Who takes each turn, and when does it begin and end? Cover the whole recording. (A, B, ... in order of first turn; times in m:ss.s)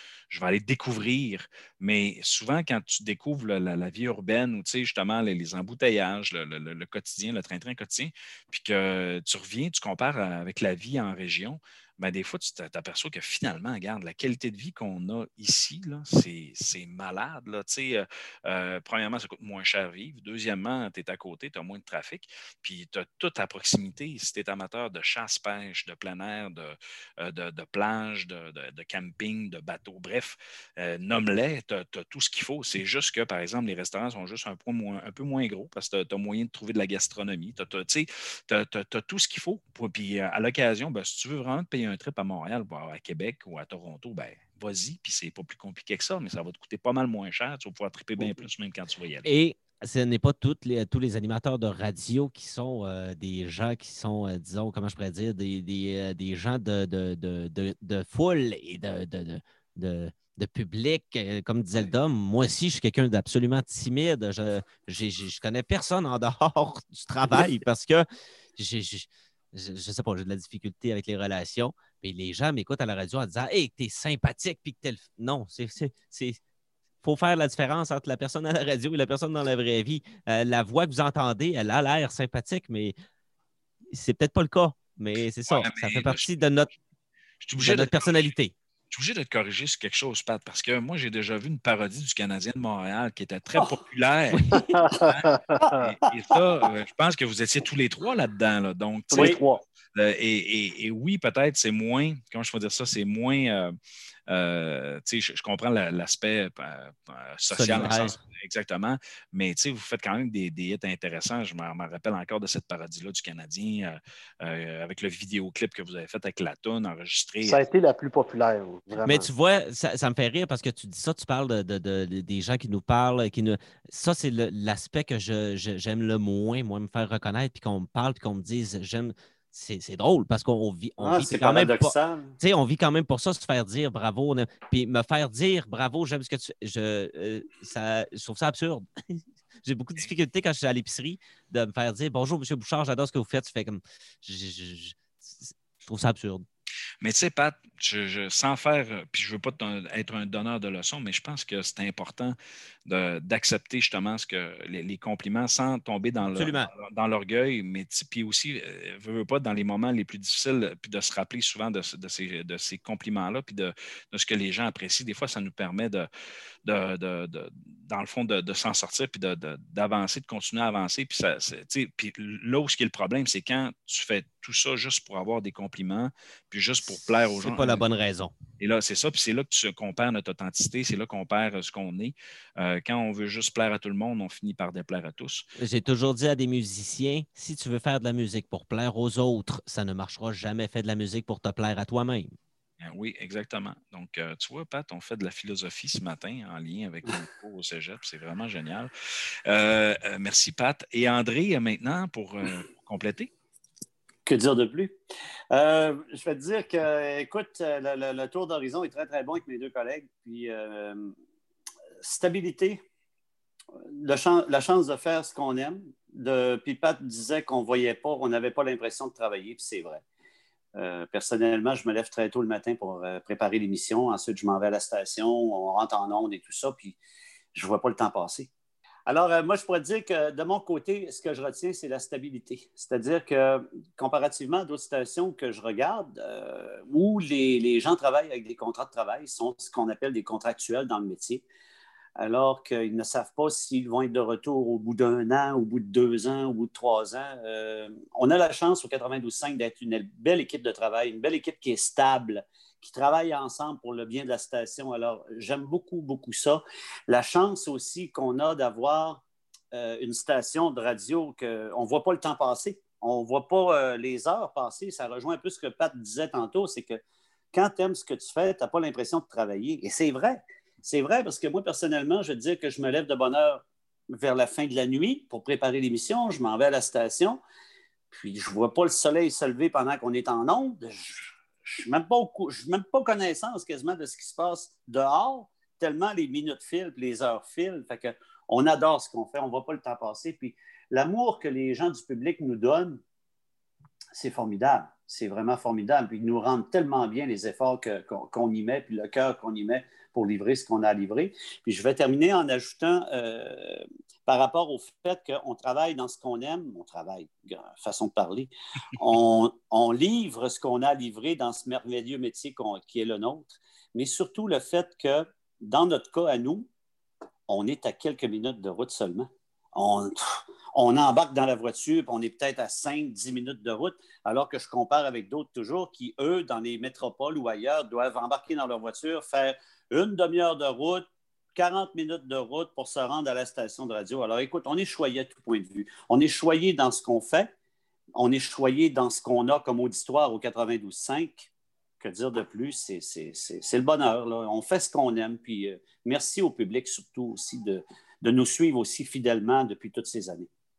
0:00.3-0:49.3 A
0:49.2-1:08.0 B
1:08.6-1:16.4 B
1:17.0-1:22.9 B
1:23.9-1:26.7 B
1:25.5-1:26.3 A
1:27.4-1:28.3 A
1:27.6-1:28.5 B
1:28.9-1:39.4 A
1:34.5-1:34.8 C
1:34.8-1:35.8 D
1:39.1-1:39.6 D
1:39.1-1:39.4 C
1:39.9-1:43.8 A
1:44.3-1:57.6 A
1:47.5-1:48.2 B
1:57.4-1:59.3 D
1:59.0-2:26.5 B
2:11.0-2:12.4 C
2:27.0-2:46.1 A
2:36.4-2:36.7 B
2:46.6-2:57.9 A
2:56.8-2:58.3 B
2:58.6-3:05.4 A
3:05.6-3:12.4 B
3:12.8-3:18.9 A
3:19.5-3:23.3 A
3:24.3-3:25.0 C
3:25.5-3:31.1 C
3:32.0-3:32.8 C
3:33.9-3:40.0 C
3:40.8-3:47.0 C
3:47.5-3:48.5 C
3:49.1-4:01.4 C
4:02.2-4:27.0 C
4:27.5-4:37.4 C
4:38.1-4:53.0 C
4:54.1-5:16.7 C
5:17.5-5:37.5 C
5:38.2-5:41.5 C
5:42.0-5:50.5 C